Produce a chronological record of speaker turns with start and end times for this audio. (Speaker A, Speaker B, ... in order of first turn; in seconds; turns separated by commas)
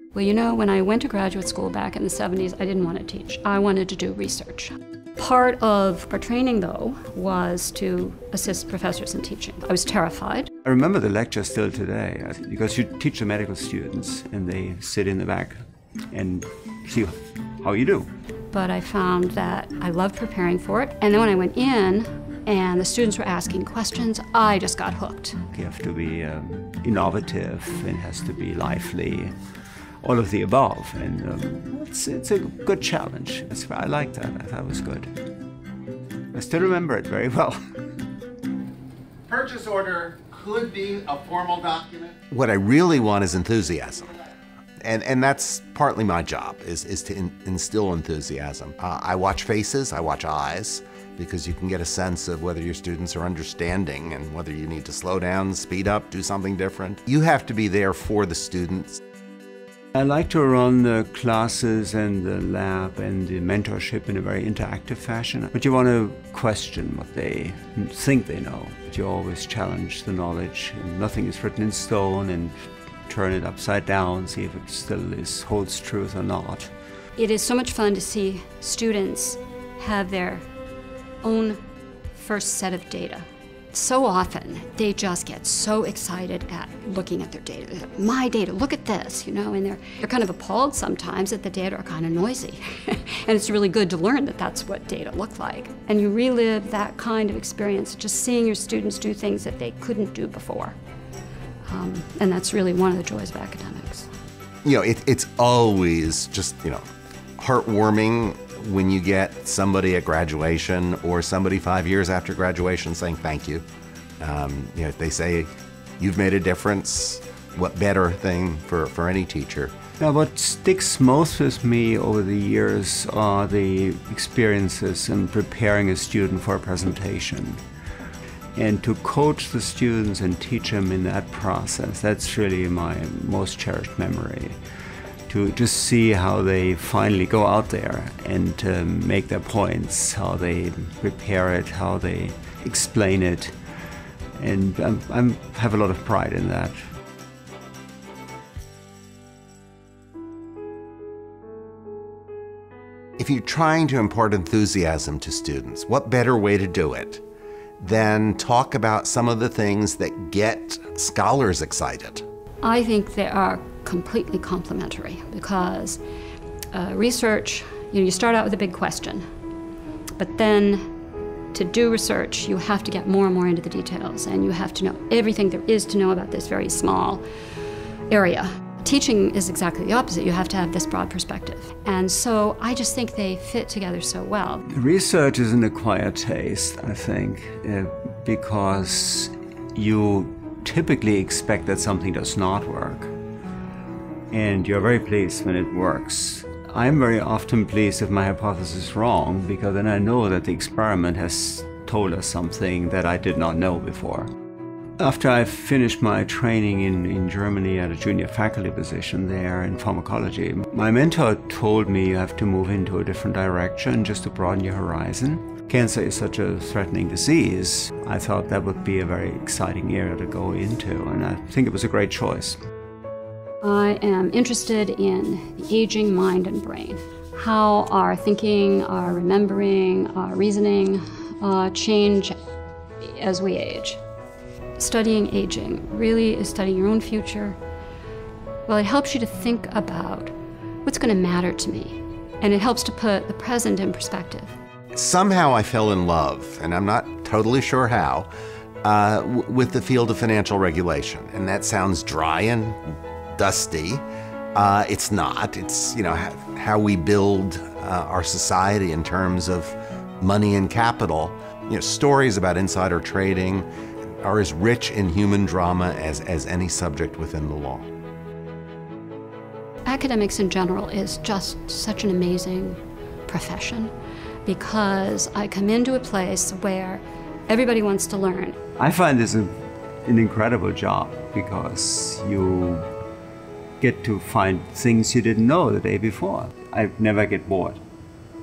Speaker A: 0.1-10.5, Speaker B: 10.6-15.6, Speaker B: 16.1-18.1, Speaker A: 18.5-25.4, Speaker B: 25.5-29.3, Speaker B: 30.0-35.1, Speaker B: 36.3-37.6, Speaker C: 39.3-44.1, Speaker C: 44.8-59.0, Speaker B: 59.9-76.7, Speaker A: 77.2-80.5, Speaker A: 81.2-81.6, Speaker A: 82.1-100.8, Speaker A: 101.7-104.1, Speaker C: 104.6-106.8, Speaker C: 107.4-113.6, Speaker C: 114.2-119.8, Speaker B: 120.0-127.6, Speaker B: 128.6-134.6, Speaker B: 135.3-143.5, Speaker B: 144.4-146.8, Speaker C: 153.2-157.2, Speaker C: 157.8-162.2, Speaker A: 162.6-166.0, Speaker A: 166.7-169.2, Speaker A: 170.2-170.8, Speaker A: 171.5-177.2, Speaker A: 178.1-184.7, Speaker B: 184.7-193.1, Speaker B: 194.3-204.3, Speaker B: 205.0-222.6, Speaker A: 223.6-232.3, Speaker A: 233.0-234.0, Speaker A: 234.8-237.6, Speaker A: 238.7-240.3, Speaker A: 240.8-244.6, Speaker C: 244.9-248.3, Speaker C: 248.8-252.8, Speaker C: 253.3-254.0, Speaker C: 254.5-263.6, Speaker C: 264.2-267.9, Speaker A: 269.9-273.9, Speaker A: 274.4-278.6, Speaker B: 278.8-279.5, Speaker B: 280.0-282.9, Speaker B: 283.8-287.8